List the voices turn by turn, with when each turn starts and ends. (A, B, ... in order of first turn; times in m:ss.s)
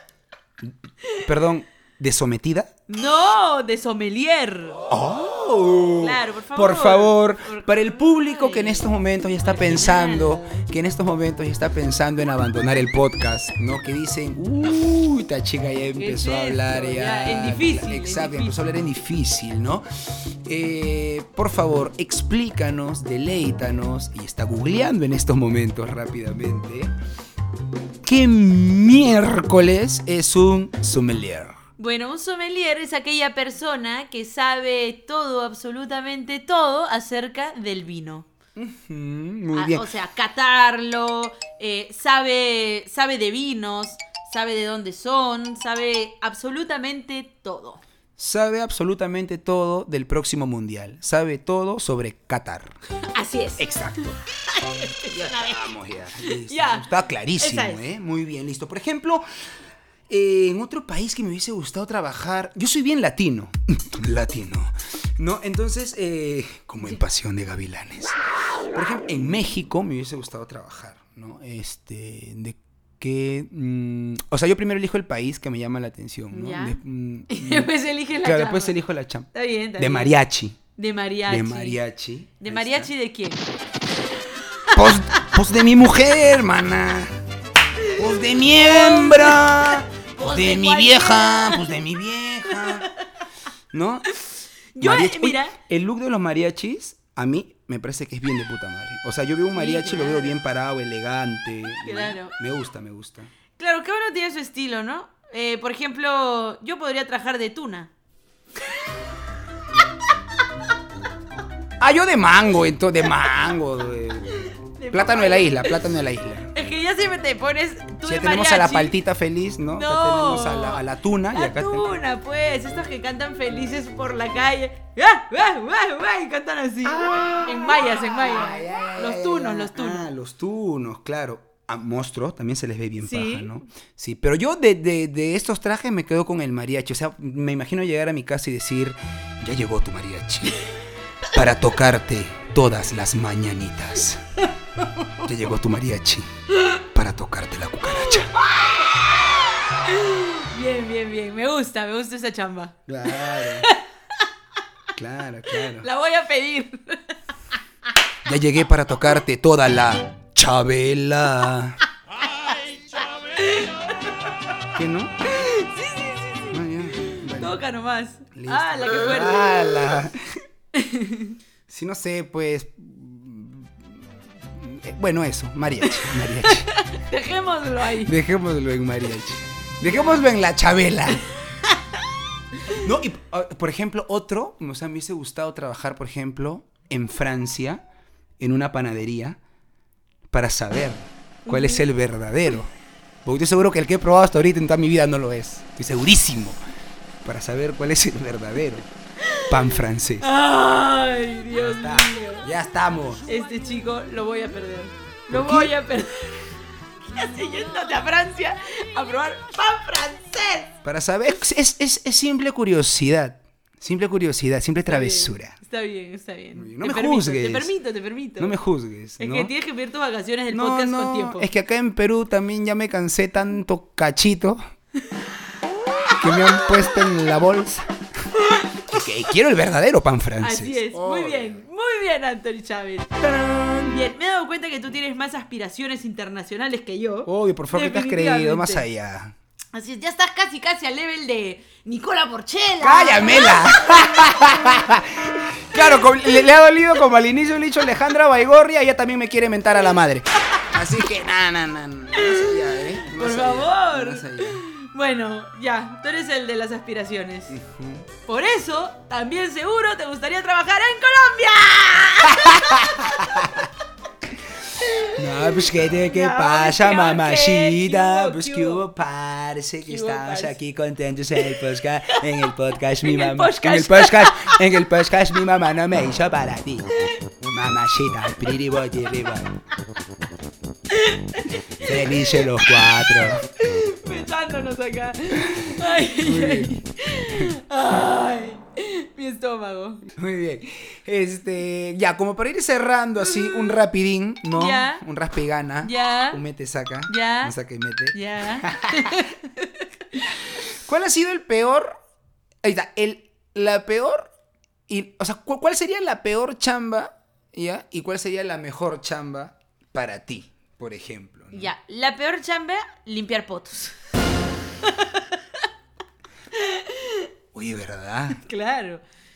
0:00.6-0:02.7 A
0:02.9-0:04.8 B
0:04.9-0:26.9 A
0:06.0-0:08.9 B
0:09.4-0:10.6 B
0:16.0-0:18.6 B
0:28.0-0:31.6 A
0:31.8-0:38.3 B
0:38.6-0:39.9 A
0:39.5-0:47.8 B
0:48.2-0:52.8 A
0:53.1-0:53.6 B
0:53.6-0:54.2 A
0:54.5-0:56.9 B
0:55.0-0:59.2 A
0:57.4-0:57.8 B
1:00.1-1:08.2 A
1:08.7-1:20.6 A
1:16.3-1:18.8 B
1:19.3-1:20.1 B
1:20.8-1:21.8 B
1:21.3-1:22.9 A
1:22.4-1:23.5 B
1:24.4-1:25.2 B
1:24.7-1:27.2 A
1:27.8-1:31.7 B
1:27.9-1:32.9 A
1:32.5-1:32.9 B
1:33.7-1:34.1 A
1:34.2-1:35.5 B
1:34.8-1:43.3 A
1:39.5-1:40.4 B
1:41.8-1:42.3 B
1:43.6-1:47.9 B
1:51.8-1:56.5 A
1:54.6-1:55.8 B
1:56.5-1:58.9 B
1:58.0-2:01.9 A
1:59.7-2:10.1 B
2:07.0-2:20.7 A
2:13.0-2:13.5 B
2:21.2-2:24.5 A
2:25.2-2:26.3 A
2:26.8-2:28.4 A
2:28.2-2:34.2 B
2:32.9-2:33.7 A
2:34.9-2:35.9 A
2:35.5-2:37.2 B
2:38.2-2:41.8 A
2:42.3-2:44.3 B
2:44.7-2:45.2 A
2:45.2-2:50.0 B
2:46.5-2:47.6 A
2:48.3-2:50.3 A
2:50.7-2:51.4 B
2:51.7-2:54.0 A
2:54.5-2:56.7 A
2:55.8-2:58.1 B
2:58.0-3:01.3 A
2:59.8-3:00.2 B
3:02.7-3:07.8 A
3:08.4-3:09.4 A
3:10.3-3:12.7 A
3:11.4-3:11.8 B
3:13.2-3:16.6 A
3:17.2-3:18.9 A
3:19.2-3:19.6 B
3:19.4-3:20.3 A
3:20.2-3:22.5 B
3:21.6-3:23.2 A
3:23.2-3:30.7 B
3:25.3-3:25.7 A
3:30.8-3:35.6 A
3:34.8-3:38.6 B
3:36.5-3:37.7 A
3:38.4-3:39.5 A
3:39.2-3:41.5 B
3:40.5-3:44.6 A
3:46.0-3:47.9 A
3:46.1-3:47.0 B
3:48.3-3:49.0 B
3:48.9-3:51.6 A
3:50.4-3:58.8 B
3:57.2-3:59.3 A
3:59.7-4:04.8 B
4:02.8-4:14.6 A
4:05.8-4:06.0 B
4:12.1-4:17.6 B
4:17.5-4:18.1 A
4:18.2-4:23.6 B
4:22.3-4:23.7 A
4:24.8-4:28.8 B
4:25.0-4:36.9 A
4:29.8-4:30.6 B
4:31.4-4:32.3 B
4:33.0-4:34.7 B
4:37.4-4:39.6 A
4:40.9-4:42.9 B
4:41.8-4:43.5 A
4:43.6-4:50.1 B
4:45.4-4:47.5 A
4:50.1-4:59.3 A
4:53.2-4:53.8 B
4:54.5-4:55.0 B
4:55.8-4:56.4 B
4:57.1-4:57.5 B
4:58.1-4:59.9 B
5:00.4-5:01.9 A
5:02.6-5:04.3 A
5:04.9-5:11.7 A
5:11.5-5:14.0 B
5:14.8-5:15.7 B
5:16.5-5:17.3 B
5:17.5-5:18.4 A
5:18.3-5:19.0 B